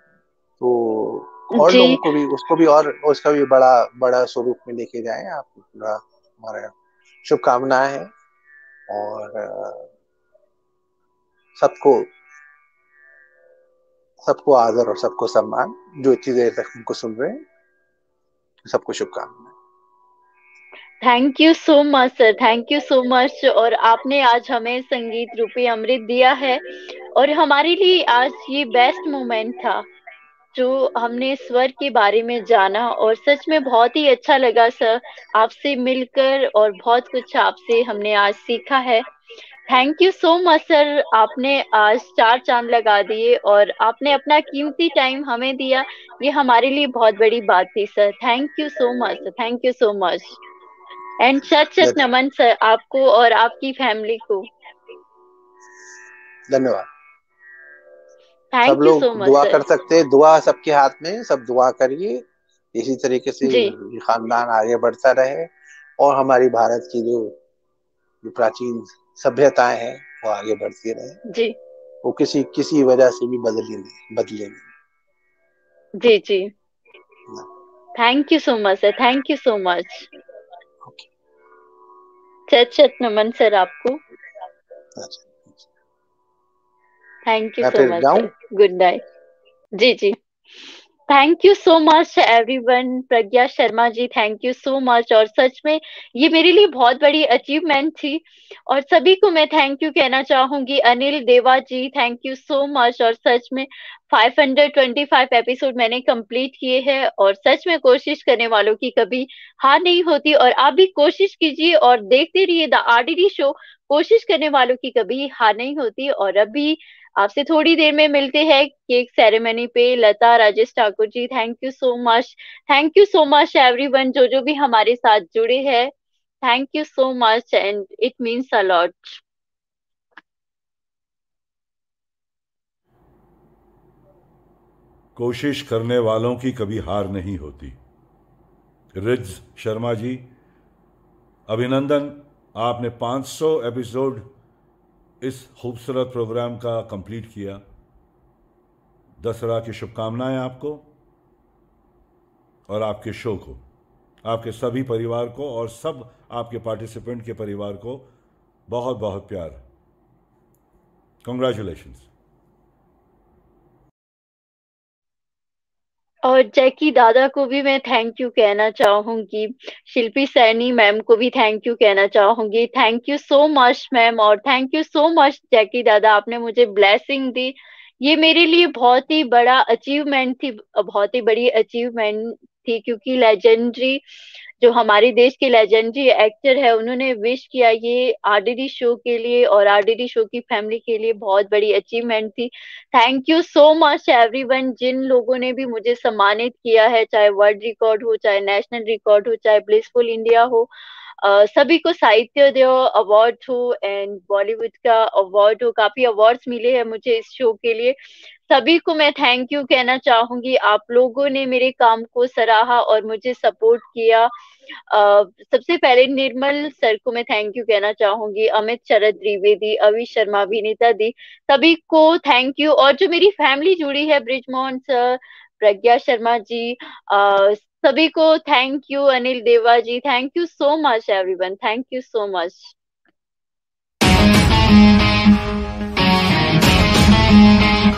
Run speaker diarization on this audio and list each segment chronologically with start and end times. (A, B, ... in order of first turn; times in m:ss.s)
0:00.6-0:08.1 A
0:01.6-0:02.0 B
0:08.9-0:09.9 A
0:11.6-0:12.1 A
0:14.2-0:17.4 A
0:18.7-0:19.5 A
0:21.0-0:26.6 B
0:27.2-0:29.9 B
0:30.5-0:39.0 B
0:39.7-0:50.4 B
0:51.2-0:54.5 B
0:56.5-0:56.9 A
0:58.5-0:59.6 B
0:58.6-1:07.4 A
1:03.4-1:03.7 B
1:08.2-1:11.2 A
1:11.3-1:11.6 B
1:12.0-1:14.7 A
1:16.0-1:16.5 B
1:18.0-1:20.1 B
1:22.5-1:24.0 B
1:25.0-1:25.7 A
1:27.3-1:29.0 B
1:27.6-1:28.3 A
1:29.8-1:30.2 B
1:31.1-2:05.9 B
2:06.4-2:09.2 B
2:15.2-2:17.8 C
2:19.0-2:20.2 C
2:21.5-2:24.3 C
2:25.2-2:27.6 C
2:29.2-2:30.8 C
2:32.7-2:33.6 C
2:34.2-2:38.1 C
2:38.7-2:39.6 C
2:41.2-2:42.1 C
2:46.2-3:04.0 B
3:04.6-3:20.7 B
3:21.2-3:28.0 B
3:28.5-3:34.3 B
3:34.9-3:52.7 B